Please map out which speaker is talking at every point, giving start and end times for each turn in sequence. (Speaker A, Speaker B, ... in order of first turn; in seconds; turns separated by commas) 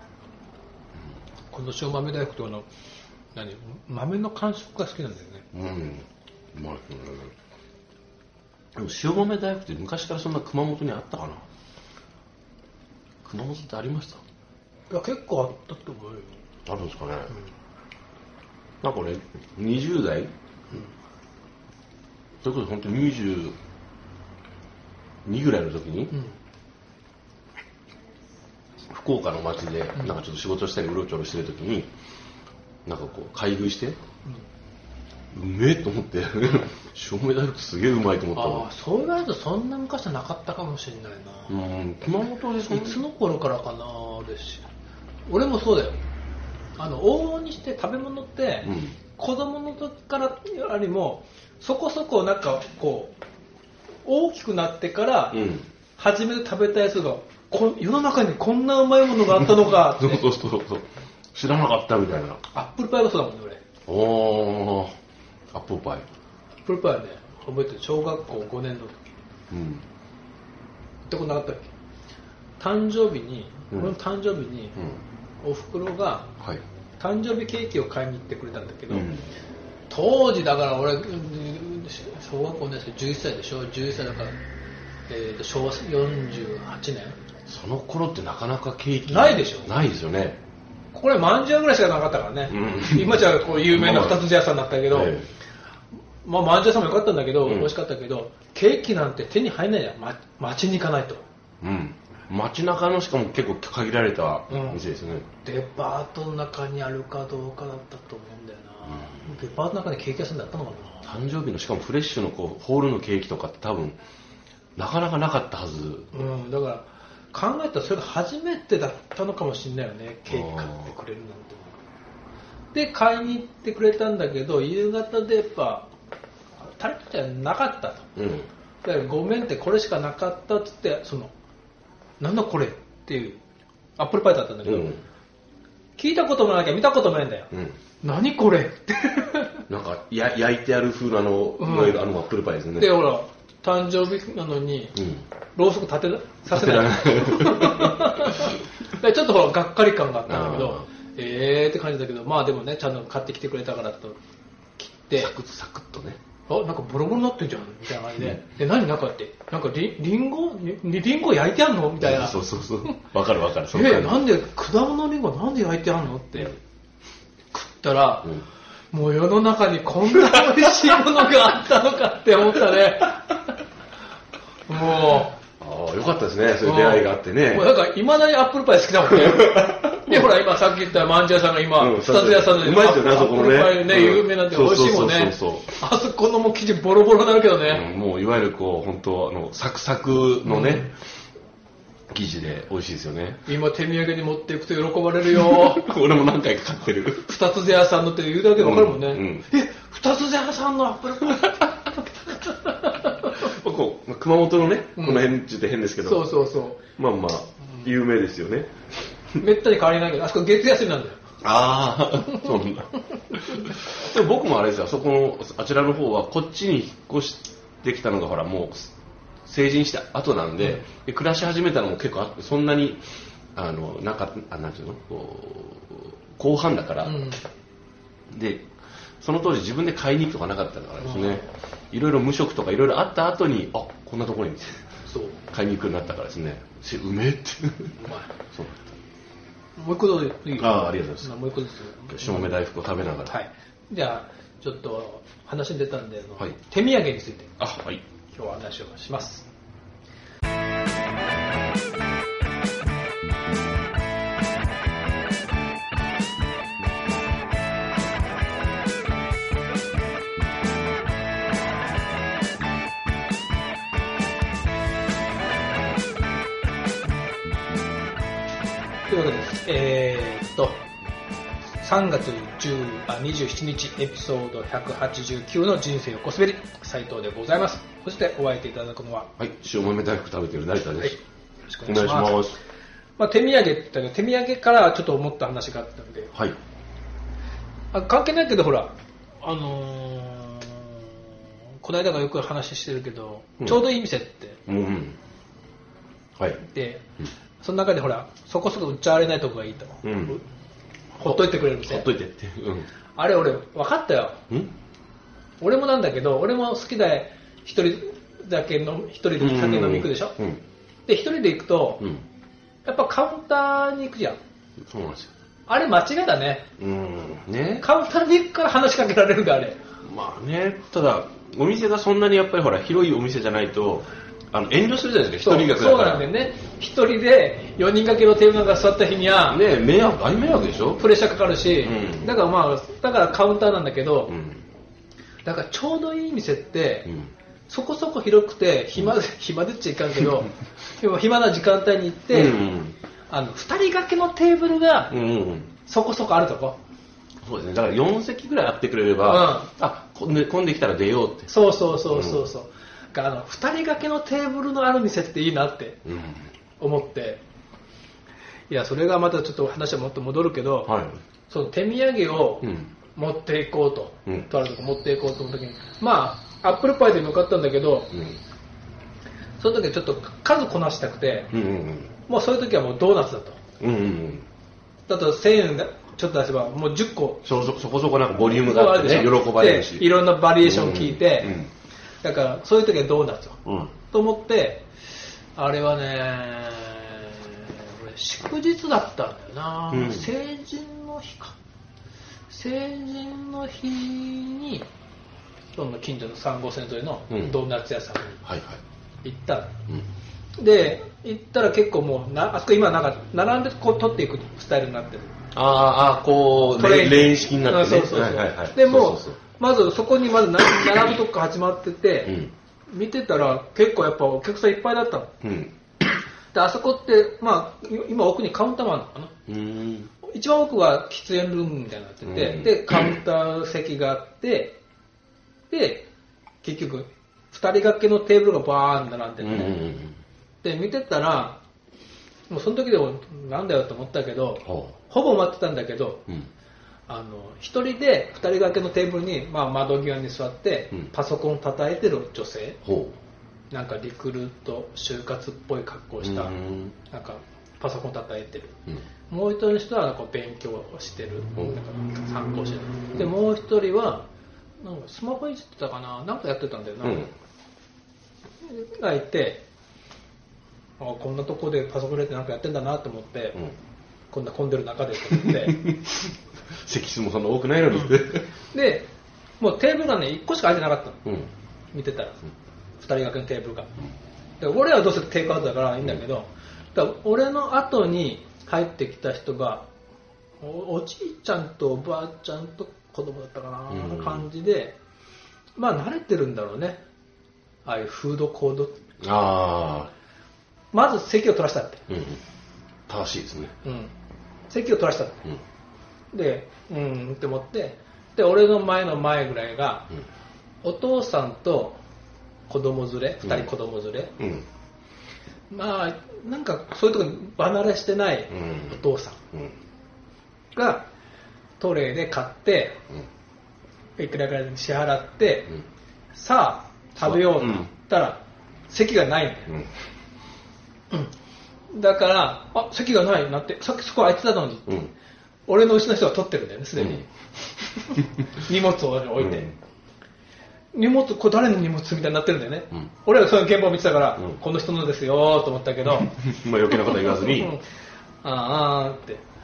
Speaker A: 1.5-2.7, Speaker A: 3.3-5.5, Speaker B: 5.5-7.3, Speaker B: 8.8-11.4, Speaker B: 13.2-14.2, Speaker A: 14.9-16.4, Speaker B: 16.6-17.4, Speaker B: 18.8-20.3, Speaker B: 22.4-23.6, Speaker B: 25.2-26.1, Speaker B: 28.9-31.9, Speaker B: 32.9-34.0, Speaker B: 35.3-38.7, Speaker A: 38.4-41.6, Speaker B: 41.5-43.0, Speaker A: 42.7-44.6, Speaker A: 45.3-46.0, Speaker A: 46.8-53.2, Speaker B: 48.6-49.0, Speaker A: 54.0-55.4, Speaker B: 55.3-55.7, Speaker A: 56.0-60.2, Speaker B: 59.2-62.4, Speaker A: 62.5-63.6, Speaker B: 63.9-64.9, Speaker B: 65.5-66.0, Speaker A: 66.6-69.1, Speaker B: 69.5-69.8, Speaker A: 71.0-71.7, Speaker A: 72.6-74.8, Speaker A: 75.4-76.3, Speaker A: 77.0-79.1, Speaker B: 78.9-79.3, Speaker A: 79.9-84.4, Speaker A: 85.1-87.2, Speaker B: 87.5-90.4, Speaker A: 89.1-89.7, Speaker A: 90.9-95.2, Speaker B: 92.5-94.3, Speaker B: 94.9-95.3, Speaker A: 96.2-101.2, Speaker B: 97.4-97.7, Speaker B: 101.6-105.3, Speaker A: 104.5-111.1, Speaker B: 111.0-114.0, Speaker B: 114.8-116.2, Speaker A: 116.1-121.8, Speaker B: 120.3-120.9, Speaker A: 122.7-125.9, Speaker A: 126.6-128.1, Speaker B: 128.2-128.5, Speaker A: 128.8-131.3, Speaker A: 132.2-133.4, Speaker A: 134.0-134.9, Speaker B: 134.6-135.0, Speaker A: 136.0-137.5, Speaker B: 137.5-137.8, Speaker A: 138.0-139.6, Speaker B: 139.7-143.0, Speaker A: 141.6-142.0, Speaker A: 142.8-145.0, Speaker B: 144.9-145.2, Speaker A: 145.5-154.2, Speaker B: 146.4-148.5, Speaker B: 150.3-150.9, Speaker A: 154.8-155.3, Speaker B: 155.1-156.2, Speaker A: 156.5-163.0, Speaker B: 158.2-158.4, Speaker B: 162.0-164.3, Speaker A: 163.7-166.6, Speaker A: 167.5-168.4, Speaker A: 168.9-173.4, Speaker A: 174.7-175.3, Speaker B: 175.6-177.7, Speaker A: 176.6-187.8, Speaker B: 179.2-180.3, Speaker B: 181.8-185.7, Speaker B: 187.6-190.9, Speaker A: 190.4-190.9, Speaker B: 192.1-193.4, Speaker A: 193.4-195.9, Speaker B: 195.3-197.3, Speaker A: 197.2-203.4, Speaker B: 198.6-199.4, Speaker B: 203.3-208.7, Speaker A: 205.0-205.3, Speaker A: 206.0-206.8, Speaker A: 209.4-211.2, Speaker B: 211.4-218.9, Speaker B: 219.4-227.3, Speaker A: 227.0-227.4, Speaker B: 228.3-228.7, Speaker B: 229.2-234.9, Speaker A: 231.0-231.5, Speaker A: 235.1-235.4, Speaker B: 235.5-238.0, Speaker A: 238.0-238.3, Speaker B: 238.5-238.9, Speaker A: 239.8-242.6, Speaker B: 240.6-241.4, Speaker B: 242.1-243.3, Speaker A: 243.2-247.5, Speaker B: 247.6-248.0, Speaker A: 248.3-249.5, Speaker A: 269.1-270.8, Speaker A: 271.8-279.3, Speaker B: 279.4-281.2, Speaker A: 281.0-282.4, Speaker B: 281.8-282.6, Speaker A: 283.2-286.3, Speaker A: 287.9-294.6, Speaker B: 294.7-295.2, Speaker A: 296.6-297.0, Speaker A: 297.6-300.4, Speaker B: 300.0-300.4, Speaker B: 301.1-302.9, Speaker A: 301.2-302.1, Speaker A: 303.1-304.4, Speaker A: 305.6-310.4, Speaker B: 309.4-310.6, Speaker A: 311.1-312.0, Speaker A: 312.8-314.4, Speaker B: 314.9-315.3, Speaker A: 315.7-316.7, Speaker B: 316.8-317.9, Speaker A: 317.8-319.8, Speaker B: 320.0-326.3, Speaker A: 325.4-329.6, Speaker B: 329.5-331.1, Speaker A: 331.0-334.4, Speaker B: 331.8-332.3, Speaker B: 334.3-334.6, Speaker A: 335.4-337.1, Speaker B: 337.1-337.3, Speaker A: 337.7-342.6, Speaker B: 342.3-342.9, Speaker A: 343.3-345.1, Speaker B: 345.1-345.7, Speaker A: 345.8-346.8, Speaker B: 347.4-351.5, Speaker A: 349.2-349.7, Speaker A: 351.5-356.0, Speaker B: 352.0-352.5, Speaker B: 356.0-356.5, Speaker A: 356.8-357.4, Speaker A: 358.7-360.9, Speaker B: 360.9-361.2, Speaker A: 361.5-368.1, Speaker B: 362.6-362.9, Speaker B: 368.1-368.4, Speaker A: 369.6-371.5, Speaker B: 371.5-372.1, Speaker A: 372.2-373.6, Speaker B: 373.8-374.4, Speaker A: 375.1-377.4, Speaker B: 377.4-381.7, Speaker A: 378.5-381.6, Speaker A: 382.2-384.9, Speaker B: 383.6-383.9, Speaker A: 385.5-391.6, Speaker B: 389.9-390.3, Speaker A: 392.5-394.9, Speaker A: 395.7-398.4, Speaker B: 397.3-397.6, Speaker B: 398.4-398.8, Speaker A: 399.2-399.7, Speaker A: 400.6-405.3, Speaker B: 405.5-409.4, Speaker A: 406.7-412.4, Speaker B: 412.2-412.5, Speaker A: 412.9-415.3, Speaker B: 415.4-415.7, Speaker A: 416.5-419.3, Speaker B: 419.5-420.1, Speaker A: 420.2-424.8, Speaker B: 422.2-423.2, Speaker A: 425.7-426.1, Speaker A: 426.6-429.9, Speaker B: 429.4-430.2, Speaker A: 430.6-431.6, Speaker A: 432.5-436.3, Speaker B: 434.6-434.9, Speaker A: 437.1-442.8, Speaker B: 442.8-443.2, Speaker A: 443.7-448.8, Speaker B: 446.2-446.9, Speaker A: 449.3-454.3, Speaker A: 454.8-457.3, Speaker B: 457.0-457.3, Speaker A: 458.6-459.6, Speaker A: 461.0-463.6, Speaker A: 464.3-465.8, Speaker B: 465.3-468.5, Speaker A: 468.7-471.2, Speaker B: 471.2-471.5, Speaker A: 471.9-472.4, Speaker A: 473.0-473.9, Speaker A: 474.6-479.9, Speaker A: 480.6-484.9, Speaker B: 483.9-484.4, Speaker A: 485.8-487.0, Speaker A: 487.8-489.0, Speaker B: 489.2-490.1, Speaker A: 490.9-492.0, Speaker B: 492.1-492.4, Speaker B: 493.1-493.7, Speaker A: 493.8-494.1, Speaker A: 494.7-495.4, Speaker A: 496.3-500.1, Speaker A: 500.8-502.0, Speaker A: 502.7-504.3, Speaker B: 503.4-503.7, Speaker B: 504.4-504.6, Speaker A: 505.7-509.4, Speaker B: 508.5-509.0, Speaker A: 510.7-511.1, Speaker A: 511.8-513.0, Speaker A: 514.2-515.8, Speaker A: 516.3-519.7, Speaker B: 517.2-517.9, Speaker A: 521.9-525.0, Speaker A: 525.7-527.3, Speaker B: 527.0-527.2, Speaker A: 528.0-529.7, Speaker B: 529.4-529.7, Speaker A: 530.9-536.4, Speaker B: 536.2-537.7, Speaker A: 536.9-537.8, Speaker A: 538.4-539.4